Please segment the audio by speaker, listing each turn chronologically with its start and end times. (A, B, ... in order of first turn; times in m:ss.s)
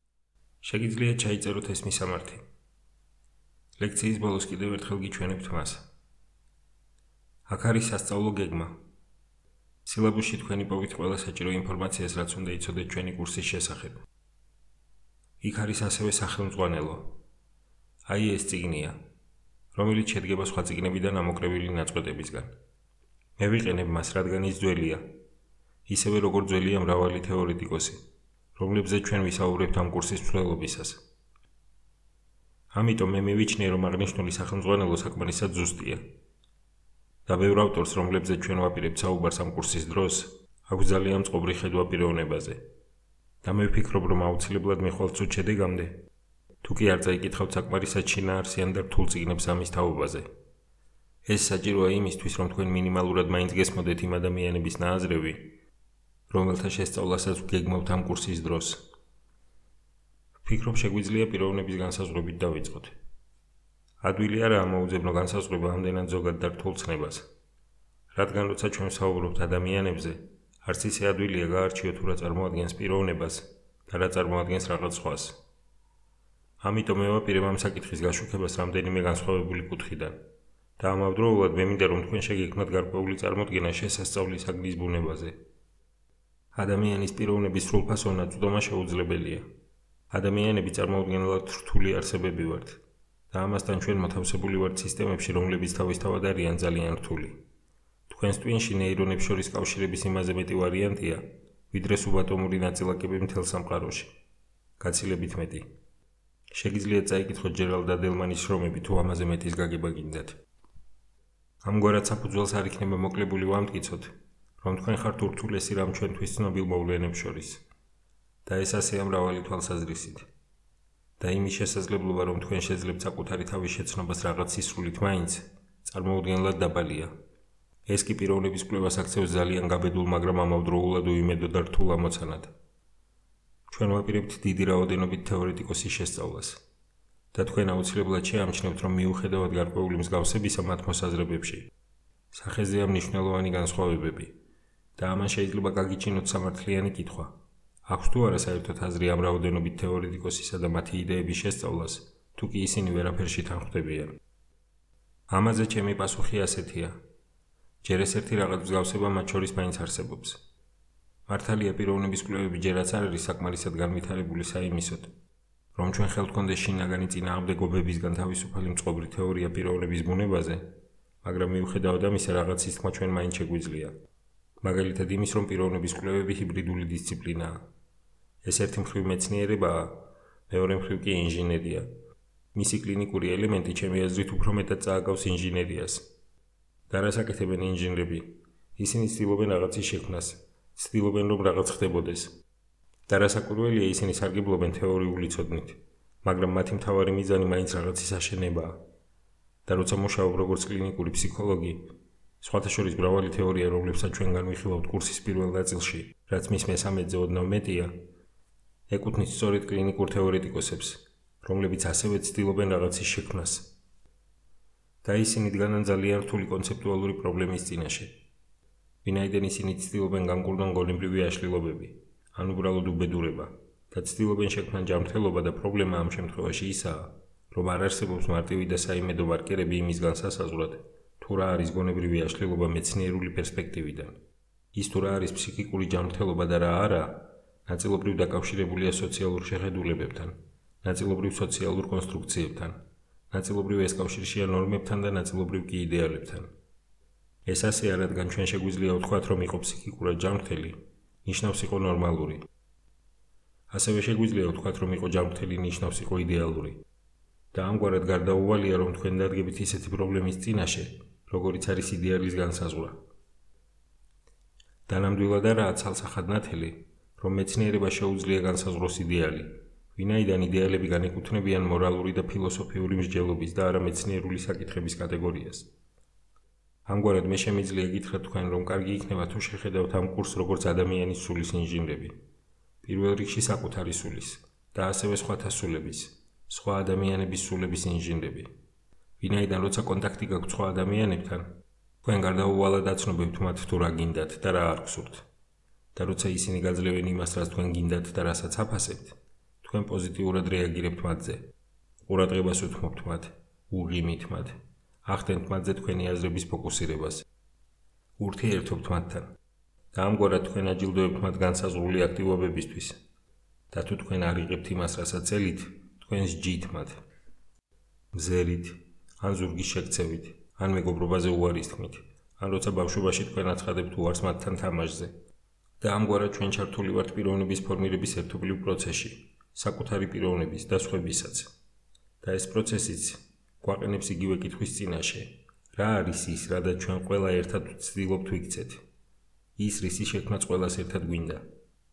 0:00.6-0:02.4 A
0:03.8-0:05.9 A
0:07.5-0:08.8 A
0:09.8-0:14.0 A
0:15.4-0:17.2 A
0:18.0-0:19.0 A
0:19.7-0:22.5 A
0:23.4-0:25.2 A
0:25.9-0:28.0 A
0:28.5-0:31.0 A
0:32.7-0:36.1 A
0:37.2-0:42.6 A
0:43.4-0:46.1 A
0:46.6-0:50.3 A
0:51.2-0:55.6 A
0:56.3-0:58.9 A
1:00.4-1:02.9 A
1:04.0-1:07.3 A
1:08.1-1:15.4 A
1:16.6-1:20.2 A
1:20.8-1:25.4 A
1:26.5-1:29.4 A
1:30.1-1:37.4 A
1:38.1-1:44.1 A
1:44.8-1:45.7 A
1:46.5-1:50.4 A
1:51.6-1:57.6 A
1:58.4-2:00.3 A
2:01.2-2:07.1 A
2:07.8-2:12.5 A
2:13.7-2:16.6 A
2:17.3-2:21.7 A
2:22.3-2:24.3 A
2:25.0-2:34.2 A
2:35.3-2:37.0 A
2:37.8-2:40.4 A
2:41.3-2:45.1 A
2:45.7-2:50.7 A
2:51.2-2:53.9 A
2:54.6-2:57.6 A
2:58.4-3:01.9 A
3:02.5-3:06.1 A
3:06.9-3:12.4 A
3:13.1-3:18.8 A
3:19.6-3:28.0 A
3:28.9-3:33.8 A
3:35.0-3:38.2 A
3:39.0-3:54.2 A
3:54.7-4:02.8 A
4:03.3-4:06.5 A
4:07.4-4:12.4 A
4:13.7-4:16.8 A
4:17.5-4:23.0 A
4:24.9-4:35.7 A
4:36.9-4:42.2 A
4:42.8-4:48.5 A
4:49.2-4:55.2 A
4:55.9-5:01.5 A
5:02.1-5:07.2 A
5:08.2-5:09.3 A
5:09.9-5:13.0 A
5:13.7-5:17.0 A
5:18.1-5:25.1 A
5:25.8-5:31.5 A
5:32.2-5:38.8 A
5:39.6-5:41.4 A